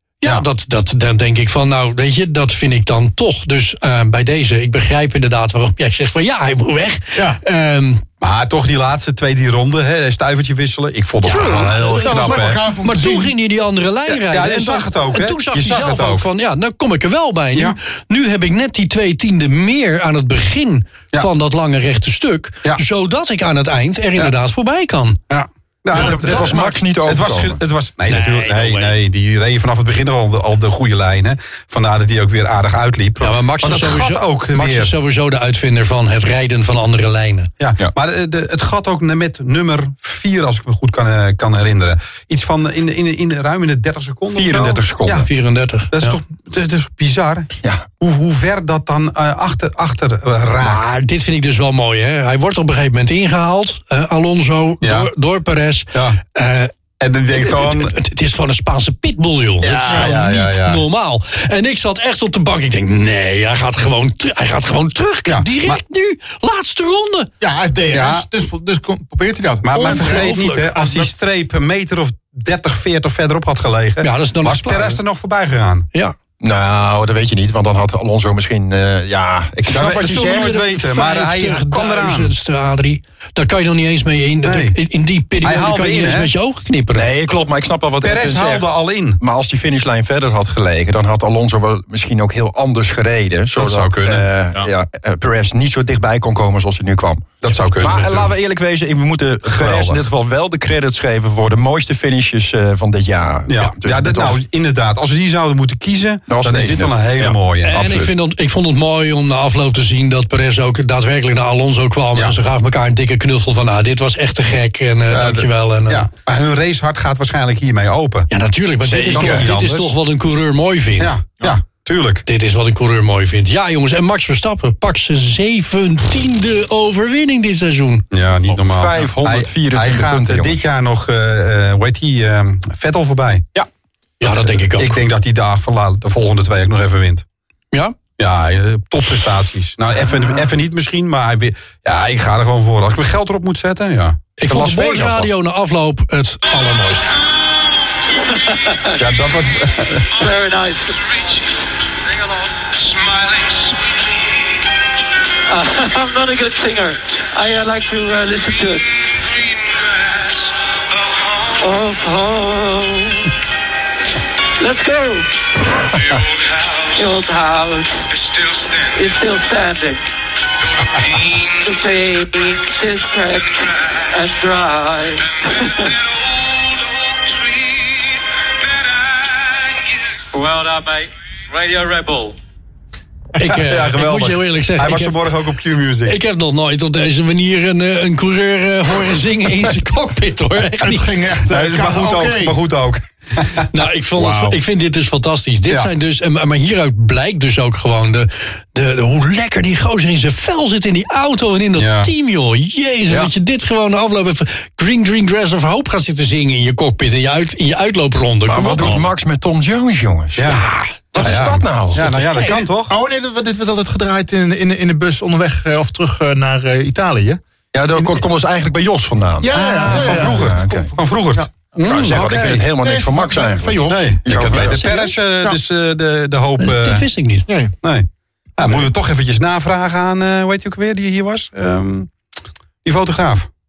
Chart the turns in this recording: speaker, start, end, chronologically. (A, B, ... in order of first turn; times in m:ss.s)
0:00.2-0:08.0 A
0:08.2-0:12.6 B
0:11.2-0:25.2 A
0:11.4-0:13.3 C
0:14.1-0:16.2 B
0:25.3-0:34.9 B
0:25.9-0:27.6 D
0:26.0-0:26.6 A
0:28.1-0:29.0 A
0:33.2-0:37.5 A
0:37.6-0:45.3 B
0:44.3-0:45.3 D
0:45.2-0:46.2 A
0:45.9-0:50.9 B
0:47.6-0:47.9 D
0:50.6-0:56.7 A
0:54.8-0:55.1 B
0:55.9-0:56.2 B
0:57.0-0:57.9 B
0:57.3-1:07.3 A
0:59.6-1:00.8 B
1:05.3-1:05.8 B
1:07.4-1:11.1 C
1:07.9-1:08.3 B
1:09.6-1:15.9 B
1:09.8-1:10.7 A
1:14.0-1:15.0 A
1:16.4-1:20.6 D
1:19.7-1:22.3 B
1:20.0-1:27.1 A
1:24.4-1:24.8 B
1:25.4-1:26.3 B
1:26.9-1:28.7 D
1:28.0-1:29.2 B
1:29.2-1:44.4 D
1:33.6-1:34.3 B
1:37.4-1:38.3 B
1:39.5-1:40.0 B
1:43.5-1:47.8 B
1:46.3-1:48.1 D
1:47.6-1:56.1 A
1:55.1-1:58.3 B
1:58.3-2:01.2 A
1:58.9-1:59.9 B
1:59.1-1:59.5 D
2:01.0-2:02.2 B
2:02.3-2:08.0 A
2:08.1-2:13.5 B
2:08.5-2:10.6 D
2:14.2-2:15.0 A
2:14.3-2:17.2 B
2:18.2-2:24.2 B
2:24.4-2:27.2 A
2:24.5-2:25.3 D
2:28.1-2:29.0 E
2:29.0-2:30.2 B
2:30.1-2:34.5 E
2:35.5-2:43.4 E
2:44.6-2:50.0 E
2:50.8-3:02.4 E
3:03.4-3:05.2 A
3:03.5-3:06.2 B
3:06.0-3:11.2 A
3:10.8-3:12.6 C
3:11.5-3:13.7 B
3:13.7-3:29.1 A
3:21.8-3:22.1 B
3:28.5-3:32.6 D
3:30.4-3:30.6 B
3:30.5-3:31.4 A
3:31.2-3:32.9 B
3:32.0-3:32.6 A
3:32.9-3:37.4 C
3:37.7-3:40.9 D
3:39.4-3:41.5 C
3:39.5-3:41.5 B
3:41.8-3:42.2 A
3:41.8-3:44.9 D
3:42.0-3:42.7 B
3:42.7-3:45.6 C
3:43.9-3:47.1 B
3:46.6-3:47.5 A
3:47.5-3:47.7 C
3:47.8-3:52.1 B
3:52.8-3:53.5 B